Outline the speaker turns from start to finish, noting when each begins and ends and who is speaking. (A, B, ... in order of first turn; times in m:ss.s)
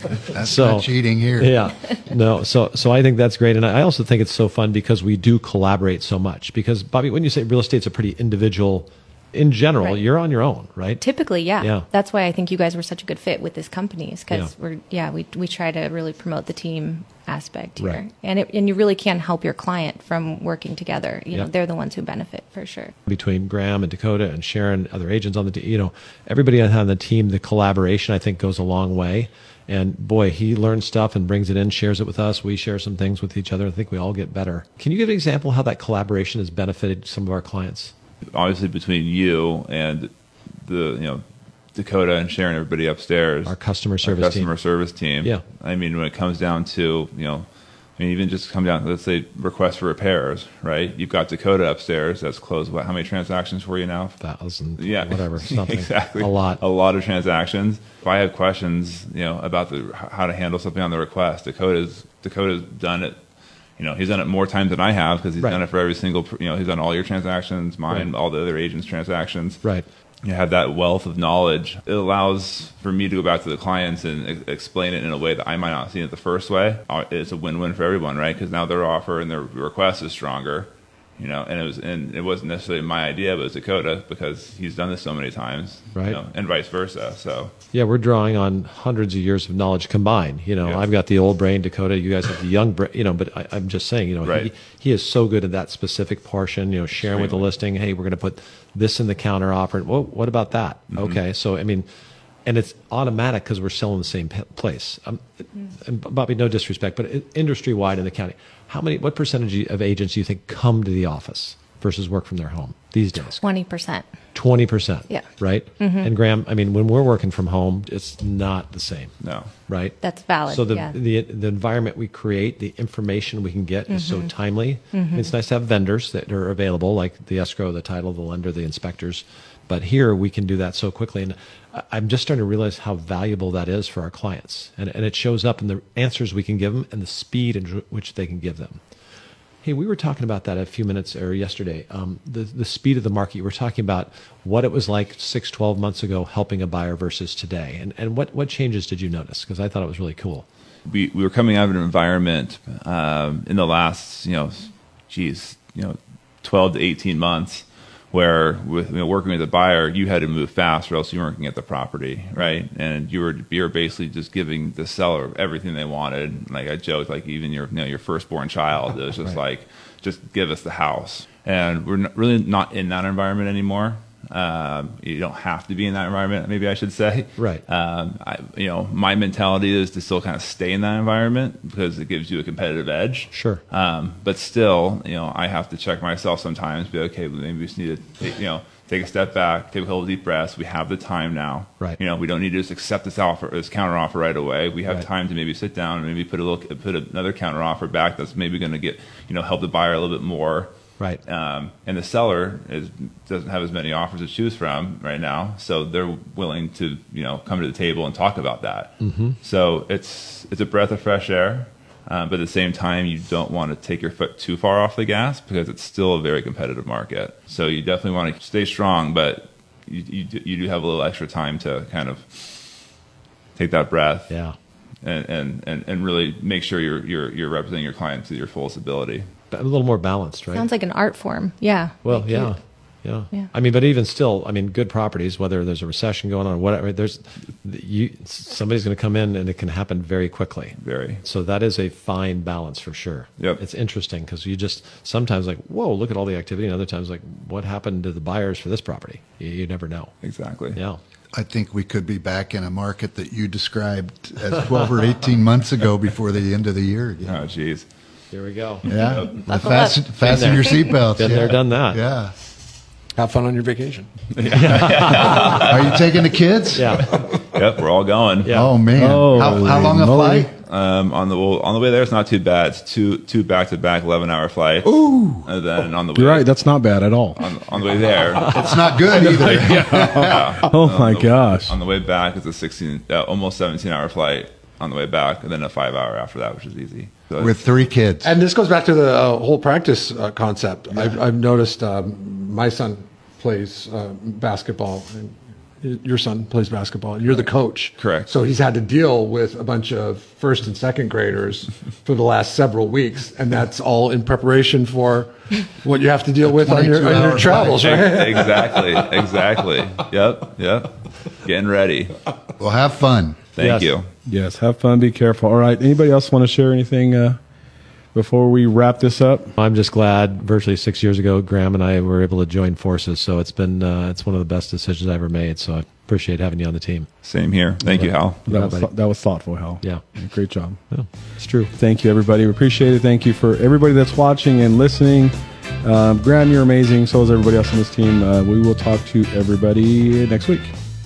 0:00.3-0:01.7 A
0:00.3-0:11.0 B
0:11.0-0:22.9 C
0:11.6-0:11.9 B
0:23.1-0:37.9 B
0:38.3-0:40.1 D
0:40.6-0:41.2 D
0:41.8-0:47.5 D
0:43.5-0:44.5 B
0:48.0-0:54.2 D
0:54.2-0:56.6 B
0:54.8-1:03.2 D
1:03.8-1:09.6 D
1:10.2-1:27.5 D
1:27.7-1:41.9 B
1:34.2-1:34.5 D
1:37.0-1:37.5 D
1:40.9-1:41.2 D
1:42.5-1:53.4 B
1:53.3-1:54.1 C
1:54.4-1:59.1 B
1:55.8-1:56.1 C
1:59.2-1:59.5 D
1:59.7-2:00.0 B
2:00.0-2:01.0 C
2:00.5-2:18.8 B
2:03.9-2:04.3 C
2:04.9-2:05.3 C
2:19.6-2:30.4 B
2:30.9-3:20.7 D
2:57.4-2:57.6 B
3:03.3-3:03.6 B
3:21.3-3:42.6 D
3:29.0-3:29.4 B
3:43.6-3:44.3 D
3:44.3-3:44.6 B
3:45.0-3:49.3 D
3:49.5-3:50.7 B
3:50.5-3:52.5 C
3:52.0-4:10.1 B
4:00.8-4:01.2 D
4:10.2-4:10.8 D
4:10.7-4:11.0 B
4:11.3-4:17.4 A
4:17.2-4:17.9 D
4:18.3-4:18.9 B
4:18.8-4:19.3 D
4:18.9-4:22.3 A
4:19.1-4:20.0 C
4:20.2-4:22.0 B
4:20.5-4:20.8 C
4:23.2-4:24.1 E
4:24.4-4:26.2 D
4:24.4-4:25.6 B
4:25.3-4:27.1 A
4:26.8-4:27.1 B
4:27.4-4:28.6 D
4:28.4-4:28.8 B
4:28.5-4:30.5 A
4:29.0-4:30.5 F
4:30.6-4:36.5 D
4:34.9-4:35.4 A
4:36.2-4:37.4 F
4:37.4-4:47.6 D
4:38.4-4:40.6 A
4:39.2-4:41.8 F
4:47.4-4:48.3 A
4:48.2-5:09.2 E
4:58.0-4:58.3 D
5:06.6-5:08.0 A
5:07.6-5:12.2 D
5:12.6-5:13.4 A
5:13.6-5:14.1 D
5:13.6-5:13.9 B
5:14.3-5:17.4 F
5:18.1-5:19.5 F
5:19.6-5:27.1 B
5:27.2-5:28.4 D
5:27.9-5:28.9 B
5:28.5-5:30.8 F
5:30.9-5:31.7 B
5:31.8-5:40.7 F